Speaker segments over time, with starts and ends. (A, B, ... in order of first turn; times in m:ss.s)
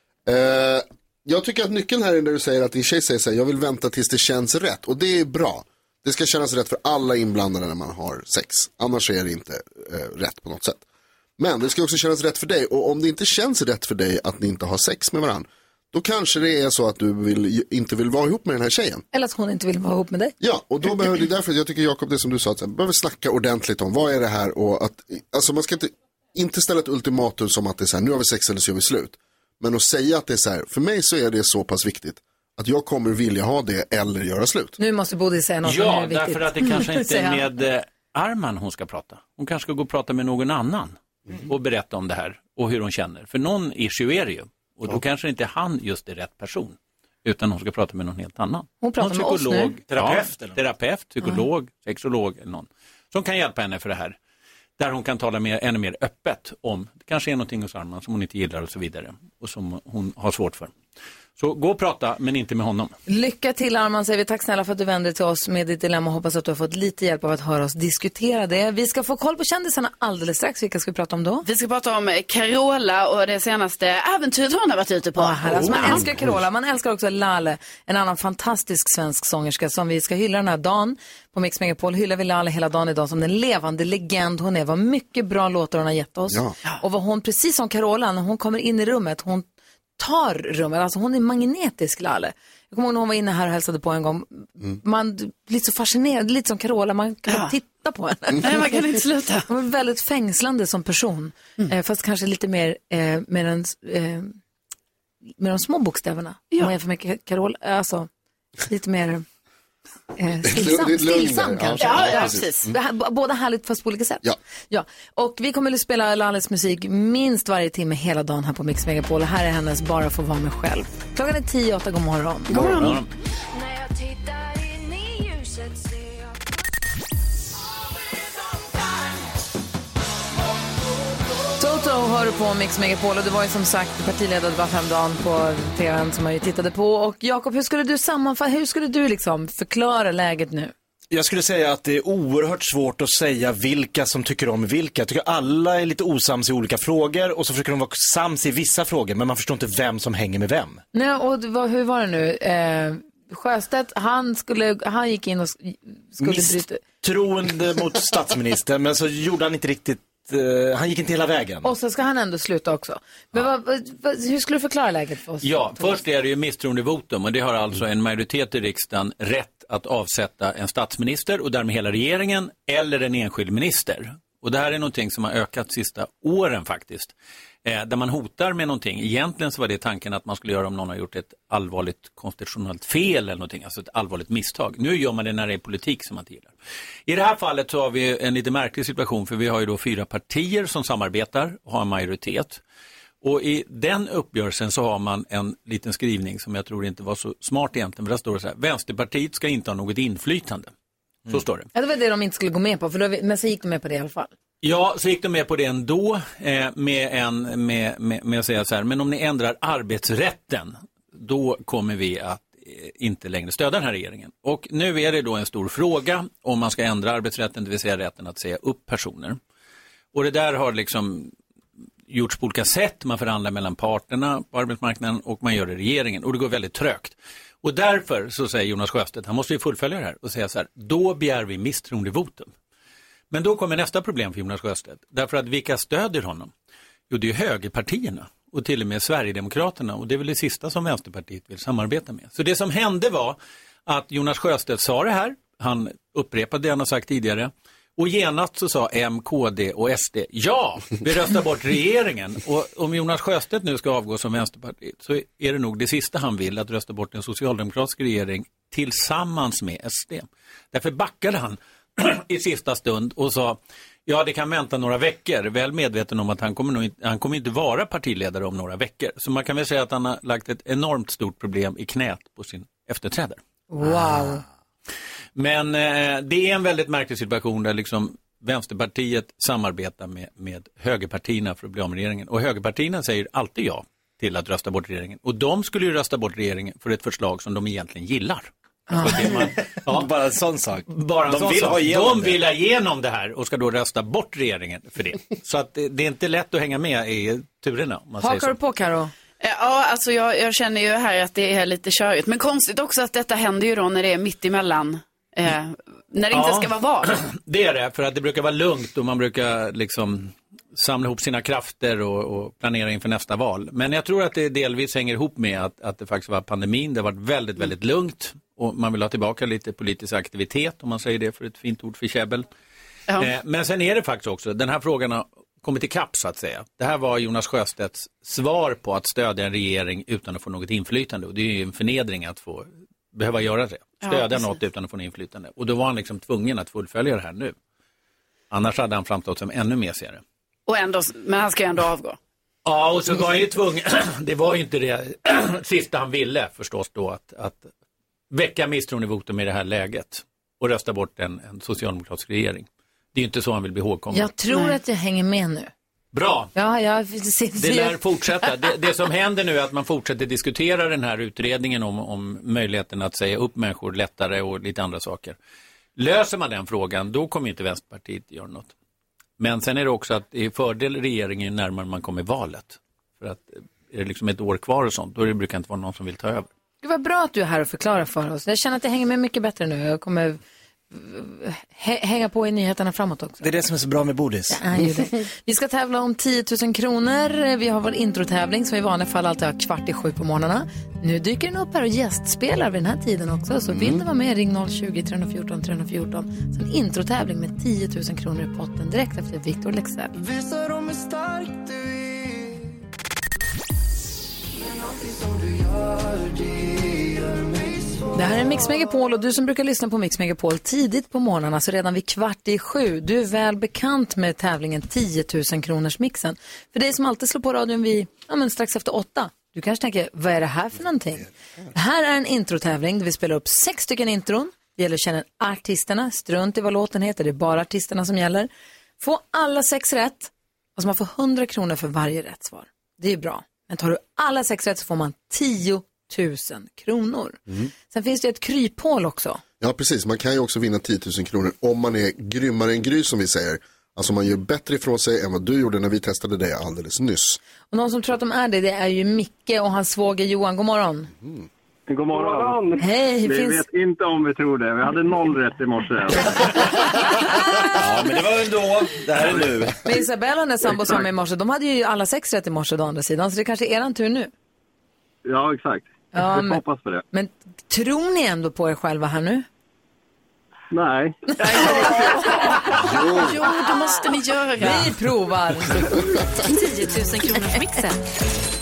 0:00.2-0:10.8 A
0:11.4-0:19.0 A
0:19.1-0:20.3 B
0:20.4-0:34.8 A
0:34.8-0:37.5 B
0:35.6-0:54.2 C
0:48.8-0:49.7 B
0:49.9-0:50.6 D
0:54.8-1:00.7 C
1:01.4-1:02.9 C
1:03.1-1:11.4 B
1:11.4-1:16.0 E
1:15.2-1:29.5 B
1:26.3-1:26.5 A
1:30.0-1:38.7 B
1:38.4-1:39.4 E
1:39.5-1:44.3 B
1:45.4-1:48.1 B
1:48.6-1:49.2 B
1:50.2-2:02.6 B
1:50.4-1:52.7 A
1:51.8-1:52.7 E
2:02.5-2:03.0 E
2:02.5-2:02.9 A
2:02.8-2:03.0 C
2:03.5-2:06.6 F
2:11.6-2:20.7 B
2:21.1-2:30.8 D
2:30.9-2:36.8 B
2:36.2-2:41.7 D
2:41.6-2:46.0 B
2:45.4-2:57.1 C
2:57.6-3:06.5 C
3:07.1-3:12.6 C
3:13.2-3:20.7 C
3:21.3-3:21.7 C
3:21.7-3:24.3 B
3:24.6-3:39.4 C
3:40.1-3:41.3 C
3:42.1-3:52.5 C
3:53.3-3:56.5 C
3:57.1-4:33.4 C
4:33.7-4:34.4 B
4:34.0-4:34.2 D
4:35.4-4:50.1 C
4:48.9-4:49.2 B
4:49.0-4:52.4 D
4:50.9-4:58.6 C
4:58.2-4:59.1 B
4:59.4-5:07.1 E
5:06.3-5:22.5 C
5:23.2-5:37.6 C
5:34.0-5:34.6 E
5:38.5-5:40.2 C
5:40.7-5:42.2 E
5:42.6-5:47.7 C
5:48.3-5:54.3 C
5:54.1-5:55.7 B
5:56.1-5:56.5 C
5:56.5-5:58.0 B
5:57.6-6:05.4 C
6:06.0-6:08.7 C
6:09.4-6:16.5 C
6:16.8-6:20.4 B
6:20.9-6:23.5 B
6:23.4-6:24.6 D
6:24.5-6:40.1 B
6:33.7-6:34.0 A
6:40.1-6:42.8 G
6:44.6-6:48.7 G
6:48.1-7:08.5 B
7:09.0-7:19.4 B
7:19.6-7:27.4 A
7:27.7-7:31.1 B
7:31.2-7:31.4 A
7:31.9-7:36.6 H
7:32.2-7:32.6 G
7:32.8-7:33.7 B
7:37.8-7:39.8 D
7:39.8-7:44.3 B
7:45.2-7:47.0 H
7:46.1-7:49.4 B
7:50.7-7:52.0 H
7:51.4-7:55.0 E
7:51.4-7:52.4 B
7:52.9-7:53.2 A
7:54.6-7:56.0 B
7:56.4-7:58.0 F
7:57.3-7:57.6 B